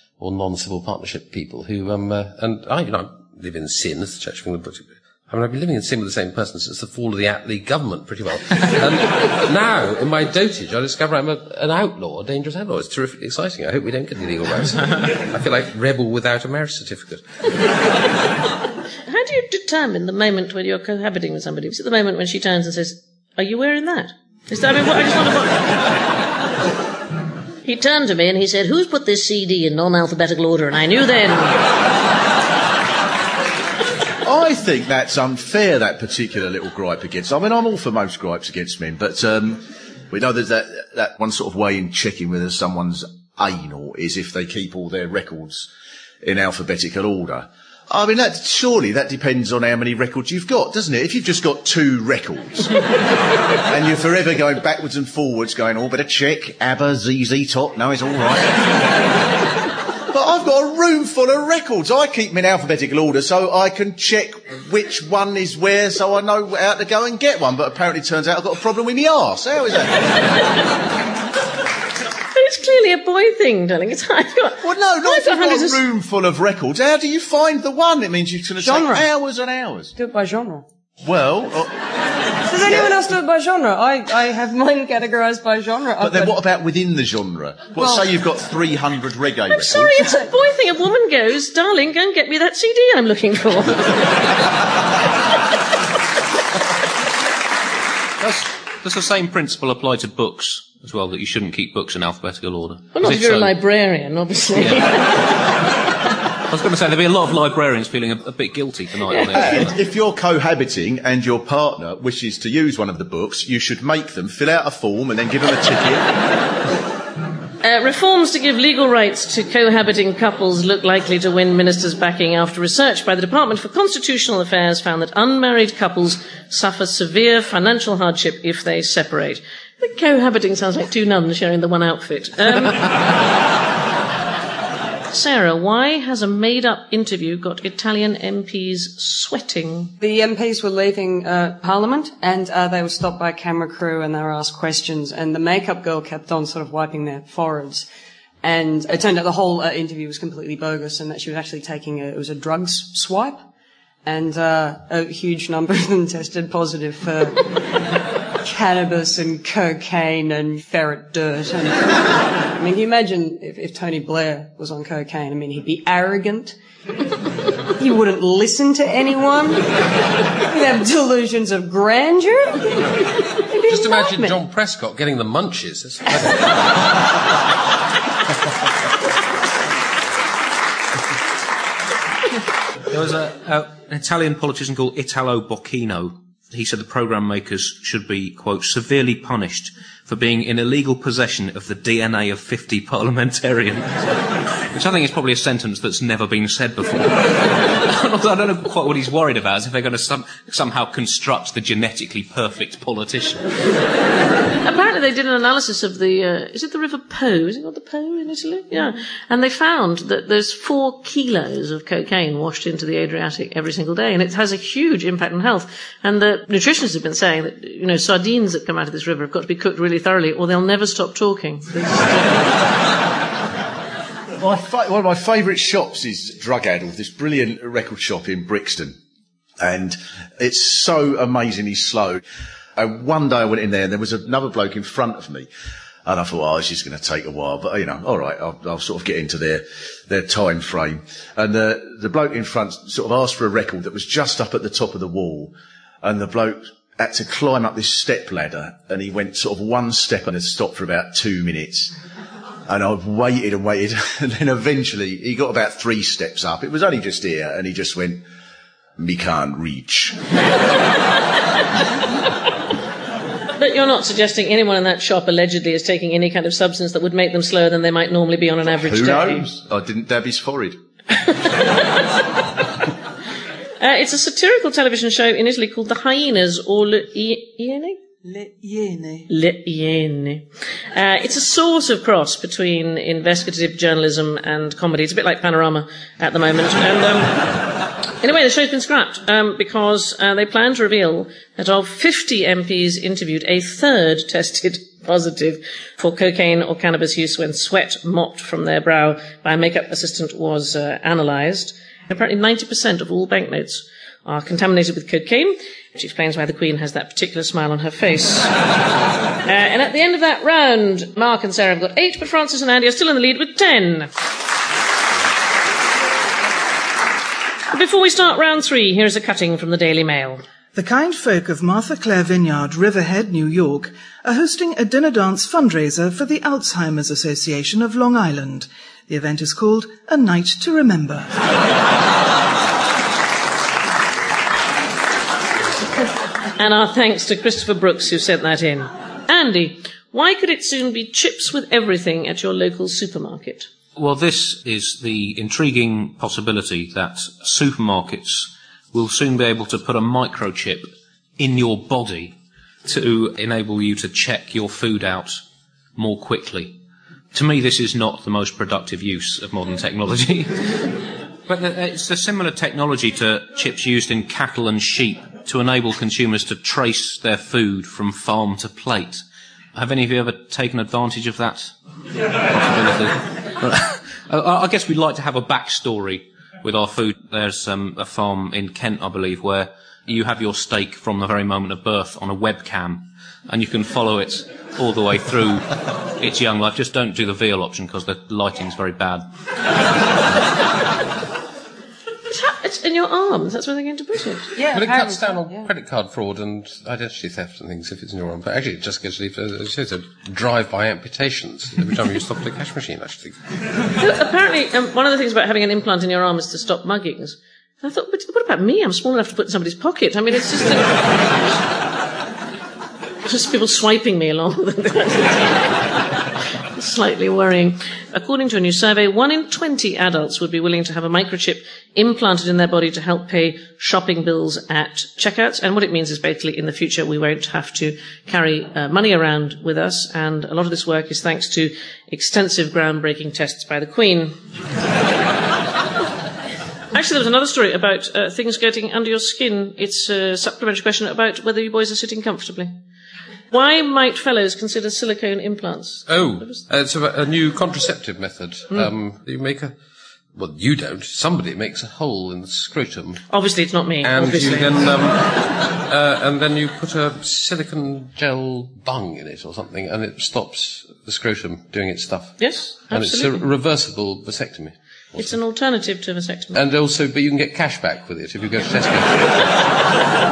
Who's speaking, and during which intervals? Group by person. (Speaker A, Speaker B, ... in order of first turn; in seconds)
Speaker A: 0.2-17.2, 173.7-176.5, 394.7-403.4, 446.1-449.8, 450.3-453.2, 454.0-465.4, 466.5-469.7
Speaker B: 19.1-25.6, 27.6-31.6, 72.3-75.8, 89.5-94.2, 102.9-105.2, 109.1-109.4, 117.6-132.9, 135.1-140.0, 204.6-222.2, 263.6-269.4, 273.8-278.0, 279.3-287.6, 288.2-308.5, 309.4-314.1, 317.7-320.4, 336.6-343.7, 392.3-394.6, 404.0-411.1, 413.2-415.9, 416.8-434.4, 436.9-442.8, 443.5-446.6, 453.3-454.8, 462.4-463.4, 465.1-466.6
Speaker C: 34.2-45.7, 46.2-52.8, 53.6-58.8, 60.1-70.1, 74.6-79.9, 81.0-81.8, 82.6-83.0, 86.0-90.0, 109.3-116.1, 224.4-229.0, 229.6-232.2, 232.8-235.5, 236.1-251.9, 252.7-258.2, 259.0-260.2, 268.8-270.8
Speaker D: 78.6-79.1, 80.0-80.7, 82.5-86.3, 87.8-88.0, 140.0-147.8, 148.4-153.4, 154.0-157.4, 158.4-162.0, 162.5-166.5, 167.7-169.7, 170.4-172.8, 173.5-174.3, 394.6-395.7
Speaker E: 98.2-103.5, 106.5-109.8, 182.9-194.0, 194.7-203.4, 343.9-355.4, 355.9-356.8, 357.3-360.9, 361.5-369.2, 369.7-371.7, 372.5-389.2
Speaker F: 278.2-279.3, 320.7-331.4